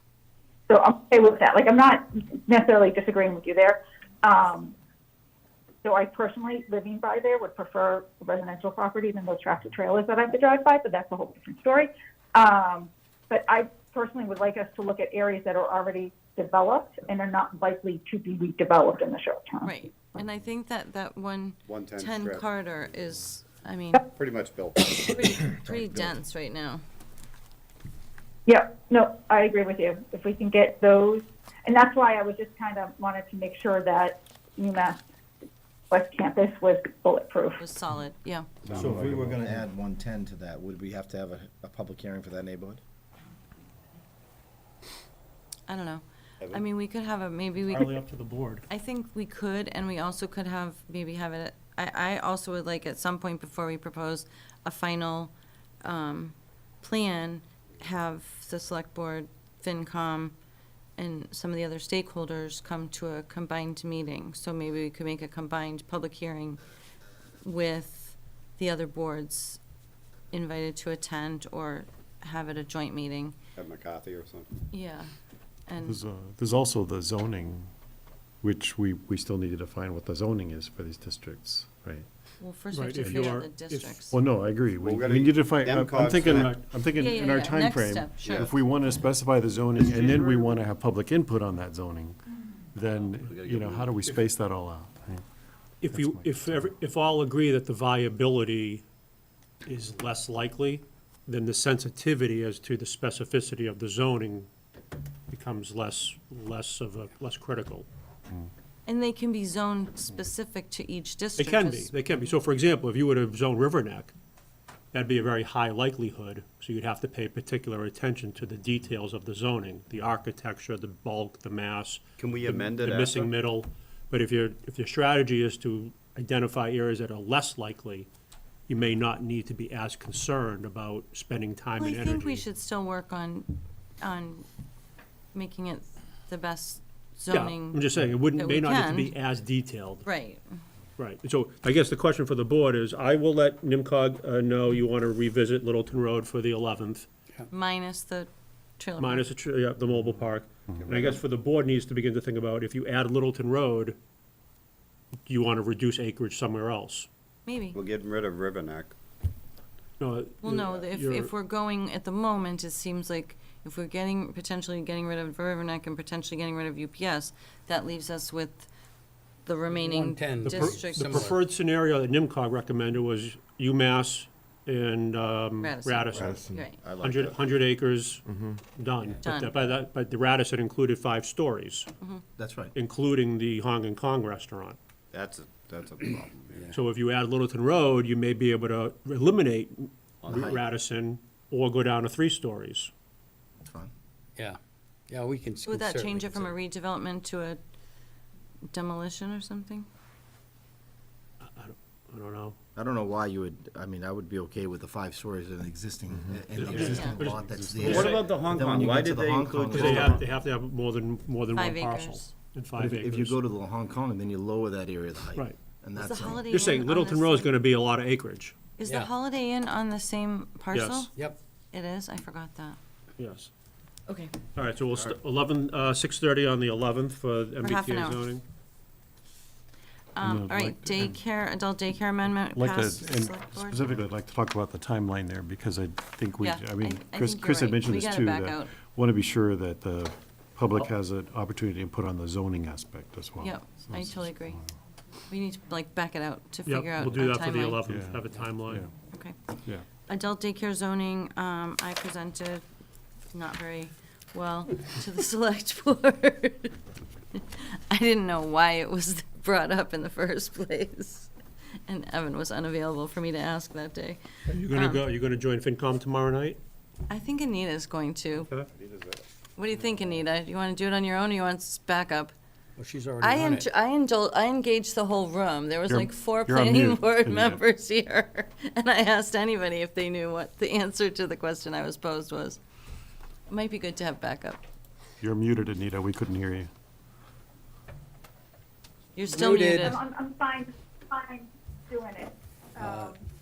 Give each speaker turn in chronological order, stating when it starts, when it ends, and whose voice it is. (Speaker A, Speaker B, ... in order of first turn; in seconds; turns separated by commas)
Speaker A: 0.7-4.7, Speaker A: 5.8-19.7, Speaker B: 19.6-24.1, Speaker C: 21.6-22.5, Speaker C: 24.1-25.5, Speaker B: 24.9-26.8, Speaker D: 25.5-26.1, Speaker A: 28.4-35.0, Speaker A: 35.9-37.6, Speaker B: 37.6-38.7, Speaker C: 38.6-39.2, Speaker D: 38.7-42.8, Speaker B: 45.7-48.0, Speaker E: 47.7-48.7, Speaker B: 48.7-60.3, Speaker B: 61.0-66.6, Speaker B: 67.4-69.6, Speaker B: 70.3-73.4, Speaker C: 73.5-74.6, Speaker B: 74.7-75.1, Speaker B: 75.7-76.0, Speaker F: 75.8-77.7, Speaker F: 78.4-82.1, Speaker B: 82.4-84.2, Speaker E: 82.7-84.1, Speaker F: 84.1-92.2, Speaker C: 84.8-86.6, Speaker E: 86.2-86.6, Speaker B: 86.9-88.5, Speaker C: 88.2-88.5, Speaker E: 89.8-90.5, Speaker F: 92.7-95.2, Speaker C: 93.2-94.0, Speaker E: 95.8-98.8, Speaker F: 95.9-96.7, Speaker E: 99.6-104.5, Speaker E: 105.3-107.9, Speaker B: 108.8-111.9, Speaker E: 111.4-114.1, Speaker E: 114.9-128.1, Speaker C: 122.2-123.3, Speaker E: 128.7-132.4, Speaker B: 131.7-134.4, Speaker B: 135.3-139.1, Speaker E: 137.3-140.1, Speaker B: 140.0-140.6, Speaker E: 141.0-147.1, Speaker B: 147.5-149.2, Speaker E: 149.0-154.0, Speaker C: 150.8-151.2, Speaker E: 155.2-157.1, Speaker B: 157.4-157.8, Speaker C: 157.7-158.9, Speaker E: 160.0-161.3, Speaker B: 160.4-168.7, Speaker B: 169.4-171.2, Speaker G: 169.7-171.4, Speaker E: 170.4-178.2, Speaker B: 175.6-176.9, Speaker C: 176.1-177.4, Speaker F: 176.2-176.6, Speaker E: 178.7-181.9, Speaker B: 179.2-179.5, Speaker D: 182.4-182.7, Speaker E: 182.7-184.8, Speaker C: 185.1-186.8, Speaker E: 186.7-192.9, Speaker C: 190.2-190.6, Speaker D: 193.6-193.9, Speaker G: 194.4-196.6, Speaker B: 195.6-197.6, Speaker B: 198.7-199.9, Speaker E: 201.4-202.6, Speaker D: 202.7-210.1, Speaker F: 206.2-208.3, Speaker E: 206.6-208.3, Speaker C: 207.8-210.2, Speaker E: 209.7-213.3, Speaker B: 211.5-212.3, Speaker D: 212.8-216.6, Speaker B: 215.9-217.6, Speaker E: 216.5-218.7, Speaker B: 218.8-221.1, Speaker G: 218.8-219.1, Speaker E: 220.7-221.1, Speaker B: 221.7-222.8, Speaker E: 223.2-223.5, Speaker B: 224.1-224.4, Speaker E: 224.5-228.4, Speaker B: 227.6-228.2, Speaker B: 230.1-233.9, Speaker F: 230.2-231.2, Speaker F: 232.5-244.7, Speaker B: 236.4-238.8, Speaker B: 243.4-244.6, Speaker B: 245.3-247.8, Speaker E: 246.6-248.8, Speaker F: 247.9-248.9, Speaker B: 249.1-249.4, Speaker B: 250.0-252.6, Speaker B: 253.3-256.8, Speaker B: 257.3-261.3, Speaker B: 261.9-265.1, Speaker E: 264.5-266.6, Speaker B: 267.1-268.5, Speaker C: 268.4-269.2, Speaker B: 269.6-272.3, Speaker G: 272.8-273.7, Speaker B: 273.2-282.6, Speaker F: 275.9-277.6, Speaker B: 283.5-284.6, Speaker F: 285.2-286.7, Speaker B: 289.1-290.0, Speaker G: 289.3-289.9, Speaker A: 289.8-293.2, Speaker G: 292.8-293.1